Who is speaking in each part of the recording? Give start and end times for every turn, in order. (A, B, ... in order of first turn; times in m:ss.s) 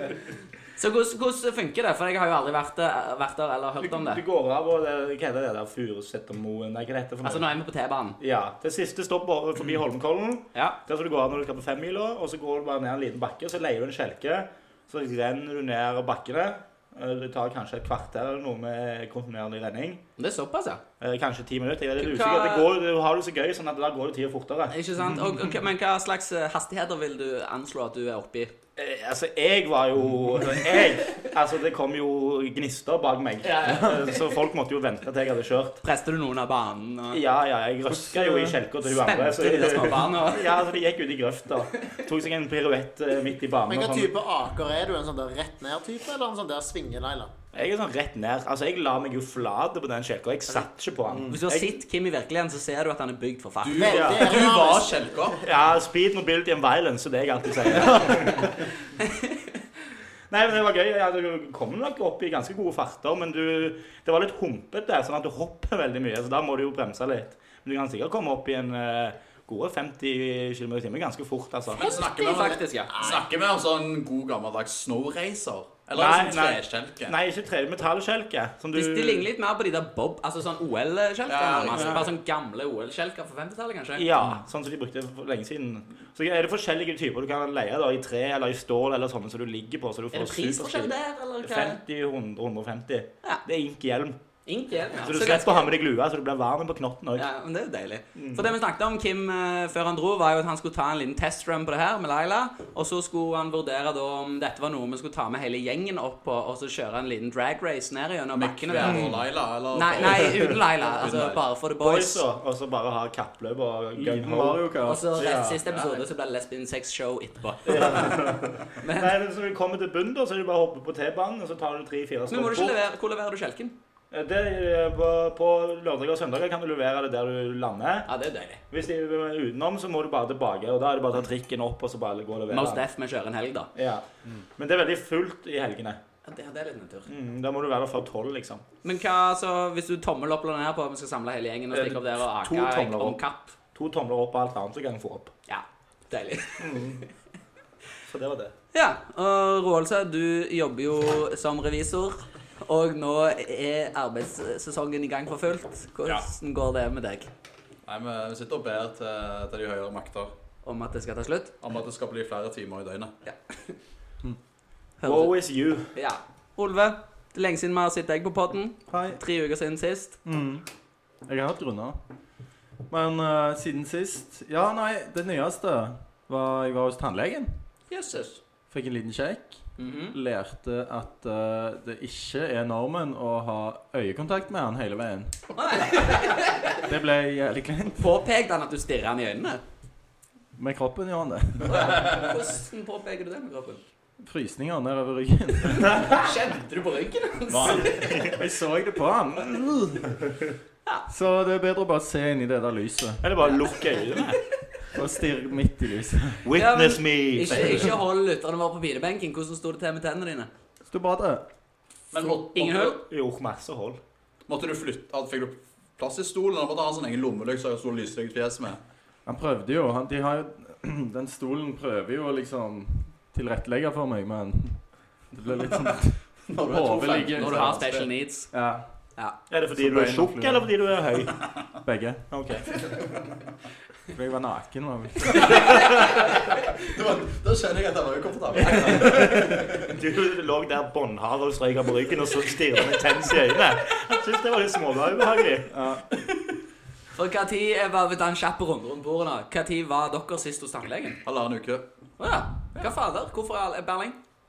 0:00.8-0:04.2 A
0:03.8-0:07.5 B
0:07.2-0:08.2 A
0:08.2-0:20.0 B
0:20.2-0:20.8 A
0:21.0-0:24.8 B
0:22.0-0:22.7 A
0:24.7-0:28.5 A
0:28.8-0:35.8 B
0:33.4-0:34.3 A
0:35.8-0:37.2 A
0:37.1-0:44.1 B
0:38.1-0:38.5 C
0:38.9-0:40.5 A
0:43.7-0:47.3 D
0:47.5-0:51.8 B
0:51.3-0:54.0 A
0:53.6-0:55.4 E
0:53.7-0:55.2 D
0:53.9-0:54.3 B
0:55.4-0:58.6 B
0:57.9-0:58.2 C
0:59.0-0:59.4 A
1:00.3-1:12.0 B
1:11.7-1:17.2 E
1:11.8-1:13.2 D
1:11.9-1:12.9 A
1:15.9-1:19.3 B
1:18.7-1:24.1 A
1:21.3-1:22.1 E
1:21.7-1:22.1 B
1:24.0-1:34.2 B
1:30.1-1:31.8 A
1:34.5-1:35.7 A
1:35.0-1:37.3 B
1:37.2-1:49.1 A
1:38.2-1:38.6 B
1:48.3-1:51.4 E
1:48.8-1:49.2 C
1:49.7-1:52.2 A
1:51.8-1:54.6 B
1:54.0-1:55.6 C
1:54.8-1:58.1 A
1:55.7-1:56.0 E
1:57.7-2:02.7 B
1:58.8-1:59.1 A
2:02.3-2:03.8 A
2:04.1-2:08.1 B
2:08.1-2:08.6 A
2:08.7-2:12.8 B
2:12.5-2:13.7 A
2:13.8-2:14.0 B
2:14.6-2:16.0 B
2:16.3-2:17.1 A
2:17.1-2:18.6 B
2:18.8-2:23.6 A
2:21.7-2:23.2 B
2:23.7-2:25.3 B
2:25.5-2:26.9 A
2:26.6-2:27.0 B
2:28.0-2:28.5 B
2:28.7-2:37.3 A
2:37.9-2:40.3 E
2:40.6-2:41.6 A
2:41.6-2:43.1 E
2:43.3-2:43.8 A
2:45.0-2:45.4 A
2:45.0-2:45.9 B
2:45.9-2:50.2 A
2:48.9-2:49.2 C
2:50.2-2:50.6 C
2:51.3-2:52.0 C
2:52.9-2:57.7 C
2:57.9-2:58.4 A
2:58.7-3:05.4 C
2:59.8-3:00.2 A
3:05.6-3:06.9 A
3:06.8-3:08.2 C
3:08.0-3:09.6 A
3:10.6-3:12.0 C
3:11.6-3:13.8 A
3:14.2-3:16.0 C
3:15.7-3:18.4 A
3:17.5-3:18.4 B
3:18.3-3:20.2 C
3:21.1-3:23.3 C
3:23.2-3:24.4 B
3:24.9-3:26.5 C
3:26.4-3:28.0 B
3:26.6-3:30.5 A
3:30.9-3:31.5 C
3:32.1-3:33.0 E
3:32.3-3:33.0 A
3:32.8-3:34.0 B
3:34.5-3:38.8 E
3:39.3-3:49.0 C
3:46.5-3:48.1 E
3:47.4-3:48.5 A
3:49.5-3:51.4 B
3:49.8-3:50.7 C
3:51.8-3:52.3 C
3:52.3-3:52.7 B
3:54.1-3:55.7 C
3:55.3-3:56.7 A
3:56.3-3:59.7 E
3:58.8-3:59.6 C
3:58.9-4:06.1 B
4:07.1-4:11.2 A
4:11.2-4:11.8 E
4:12.2-4:14.2 A